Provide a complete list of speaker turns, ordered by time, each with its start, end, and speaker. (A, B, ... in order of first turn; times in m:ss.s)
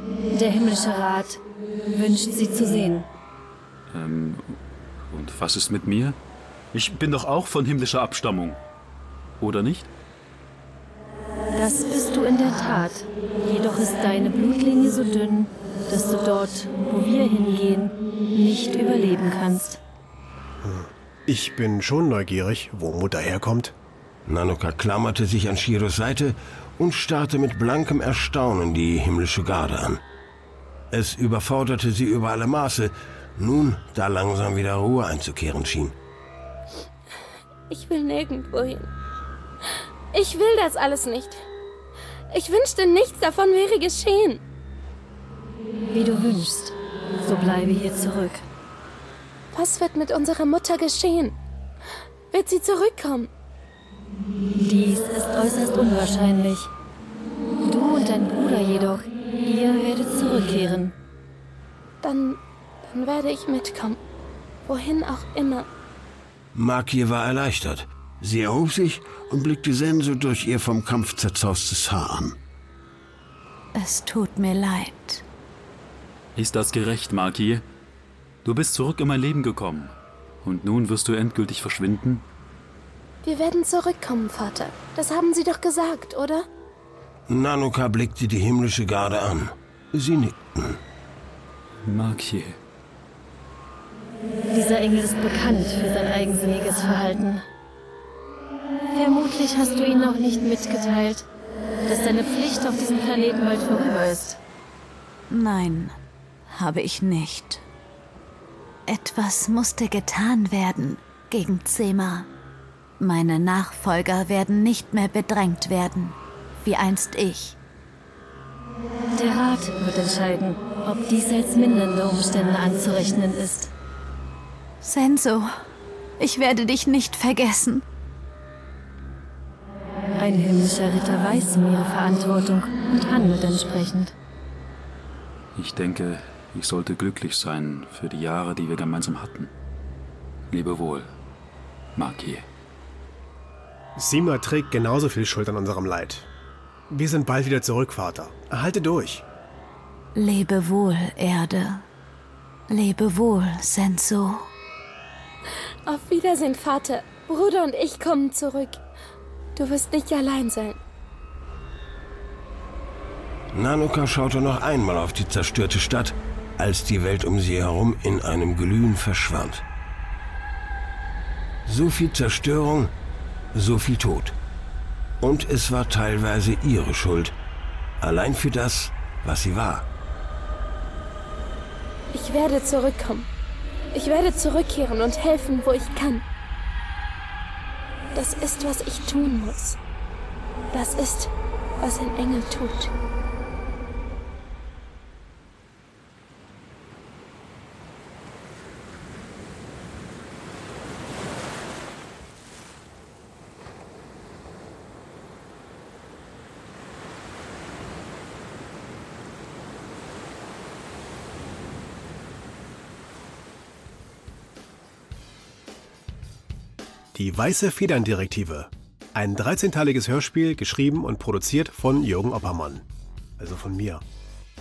0:00.3-0:03.1 A
0:03.9-0:04.5 B
0:05.1-0:06.2 B
0:06.7-0:08.6 B
0:09.4-0:09.9 B
0:11.5-0:19.8 A
0:20.6-0:23.7 C
0:24.2-0:30.0 D
0:30.9-0:35.9 D
0:37.7-0:38.9 E
0:40.1-0:41.4 E
0:42.3-0:44.4 E
0:45.9-0:48.4 A
0:49.5-0:51.4 E
0:52.3-0:53.3 E
0:54.5-0:56.7 A
0:57.6-1:00.9 A
1:02.0-1:04.0 E
1:04.7-1:05.7 E
1:06.5-1:12.3 D
1:13.8-1:15.2 F
1:16.4-1:17.6 B
1:18.4-1:19.9 B
1:20.4-1:22.2 B
1:23.2-1:26.4 E
1:27.3-1:30.8 D
1:31.8-1:32.6 B
1:34.5-1:37.4 A
1:38.9-1:41.2 A
1:41.8-1:44.4 A
1:45.3-1:45.9 F
1:46.5-1:47.6 F
1:48.9-1:52.3 F
1:53.0-1:57.6 F
1:59.1-2:03.7 A
2:04.8-2:05.5 F
2:06.2-2:07.8 F
2:10.2-2:14.1 A
2:15.5-2:19.5 B
2:20.5-2:21.1 B
2:22.0-2:22.4 B
2:24.0-2:26.3 C
2:26.9-2:29.2 C
2:30.2-2:31.8 F
2:32.7-2:34.4 F
2:35.8-2:38.8 E
2:39.6-2:40.8 E
2:43.5-2:49.6 D
2:51.6-2:52.9 D
2:53.5-2:54.3 D
2:55.2-2:57.3 D
2:58.0-2:59.9 D
3:02.1-3:03.3 E
3:03.9-3:06.2 E
3:08.1-3:09.8 E
3:10.7-3:12.9 E
3:37.1-3:42.8 C
3:43.4-3:44.0 C